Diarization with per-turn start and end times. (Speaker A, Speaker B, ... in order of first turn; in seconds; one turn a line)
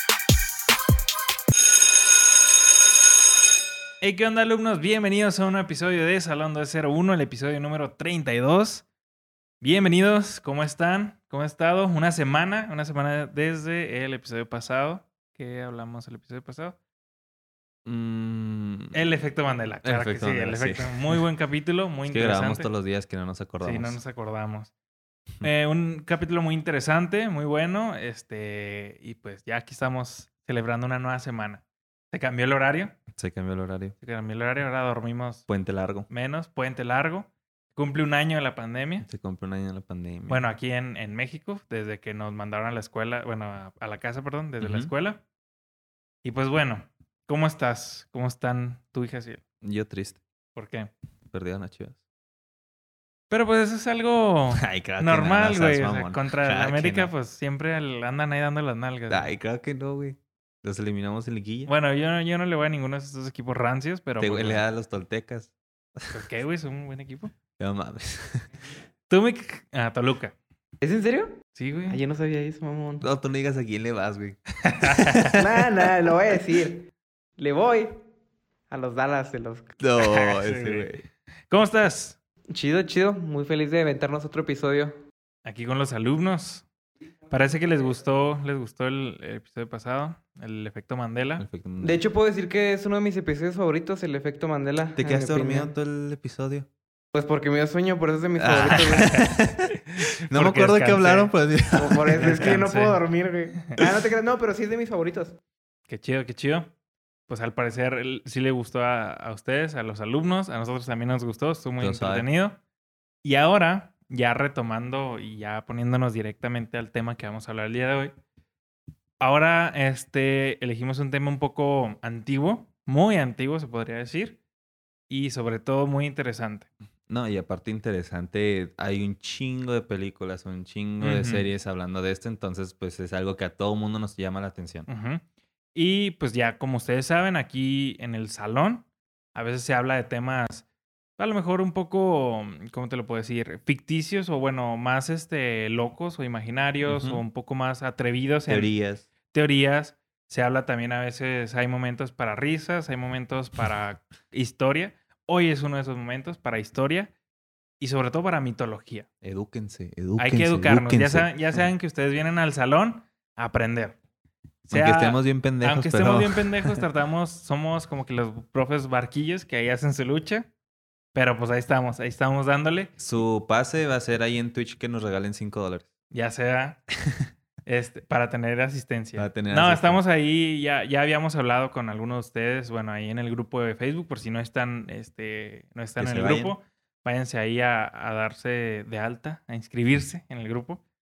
Speaker A: 4.0-8.8
Speaker A: 9.6-16.8
Speaker B: 17.8-19.0
Speaker A: 18.9-22.7
Speaker B: 19.8-21.2
Speaker B: 22.1-24.0
Speaker A: 23.6-24.7
Speaker A: 25.4-32.9
Speaker B: 33.1-33.9
Speaker A: 34.0-35.5
Speaker B: 35.5-36.1
Speaker A: 36.1-39.1
Speaker B: 39.0-40.4
Speaker A: 40.3-45.2
Speaker B: 44.6-44.9
Speaker A: 46.2-49.4
Speaker B: 49.6-50.2
Speaker A: 50.5-50.9
Speaker B: 51.3-52.0
Speaker A: 53.3-59.3
Speaker B: 54.5-57.1
Speaker B: 59.1-61.7
Speaker A: 61.6-64.6
Speaker B: 64.2-66.2
Speaker A: 66.1-67.3
Speaker B: 67.6-68.5
Speaker A: 69.1-70.3
Speaker C: 70.8-73.0
Speaker A: 71.5-72.0
Speaker B: 73.0-75.8
Speaker A: 74.6-75.3
Speaker C: 75.3-78.0
Speaker C: 78.7-79.7
Speaker B: 79.8-81.0
Speaker A: 80.0-82.2
Speaker C: 82.5-85.0
Speaker A: 85.4-86.7
Speaker A: 87.3-91.4
Speaker B: 91.4-92.0
Speaker C: 91.8-95.7
Speaker B: 95.0-96.7
Speaker C: 97.1-99.2
Speaker B: 98.4-99.7
Speaker A: 98.7-101.3
Speaker B: 100.3-102.6
Speaker C: 101.7-105.4
Speaker A: 102.2-103.0
Speaker A: 105.9-106.7
Speaker A: 107.3-112.6
Speaker B: 111.8-112.3
Speaker A: 113.2-118.1
Speaker A: 119.2-124.4
Speaker A: 125.1-126.7
Speaker B: 127.1-134.9
Speaker A: 131.0-131.5
Speaker A: 134.9-135.2
Speaker A: 135.7-140.6
Speaker A: 141.2-148.7
Speaker B: 146.9-147.2
Speaker B: 148.5-149.1
Speaker A: 149.3-157.1
Speaker A: 157.8-159.1
Speaker B: 159.2-161.6
Speaker A: 160.2-164.0
Speaker A: 164.6-170.5
Speaker B: 164.7-166.8
Speaker A: 171.1-173.0
Speaker B: 173.0-175.9
Speaker A: 176.1-176.8
Speaker A: 177.7-190.8
Speaker B: 179.2-180.0
Speaker B: 186.0-186.5